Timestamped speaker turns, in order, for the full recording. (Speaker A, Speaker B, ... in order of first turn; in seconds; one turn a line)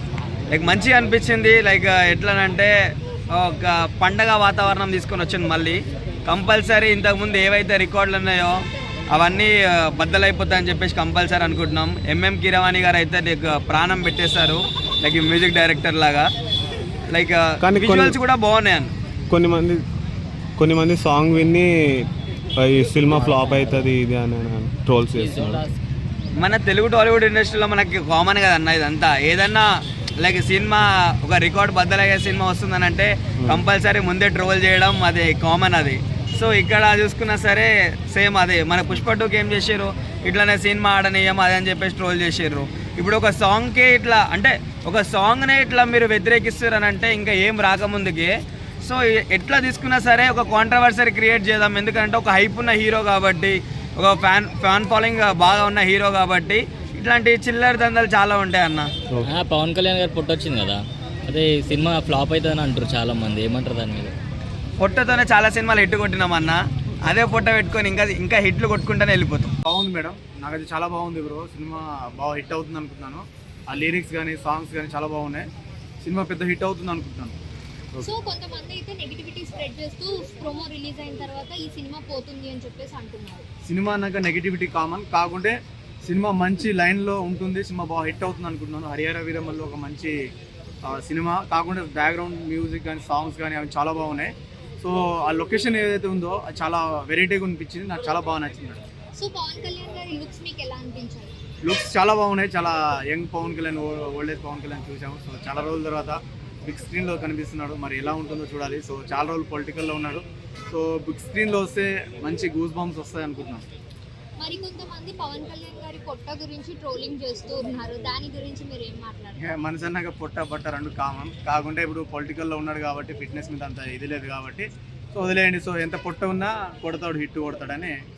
Speaker A: 0.5-2.7
Speaker A: 3.3-16.3
Speaker A: 17.1-18.9
Speaker B: 17.6-18.2
Speaker B: 19.3-19.8
Speaker B: 20.6-25.6
Speaker C: 23.1-23.9
Speaker C: 25.1-25.7
Speaker A: 26.4-58.9
Speaker C: 59.2-64.1
Speaker A: 64.8-69.5
Speaker D: 69.6-75.5
Speaker D: 76.0-77.3
Speaker E: 78.0-83.4
Speaker D: 83.7-90.1
Speaker D: 90.8-98.8
Speaker E: 99.2-101.3
Speaker D: 101.6-113.6
Speaker E: 114.4-119.4
Speaker D: 119.4-127.9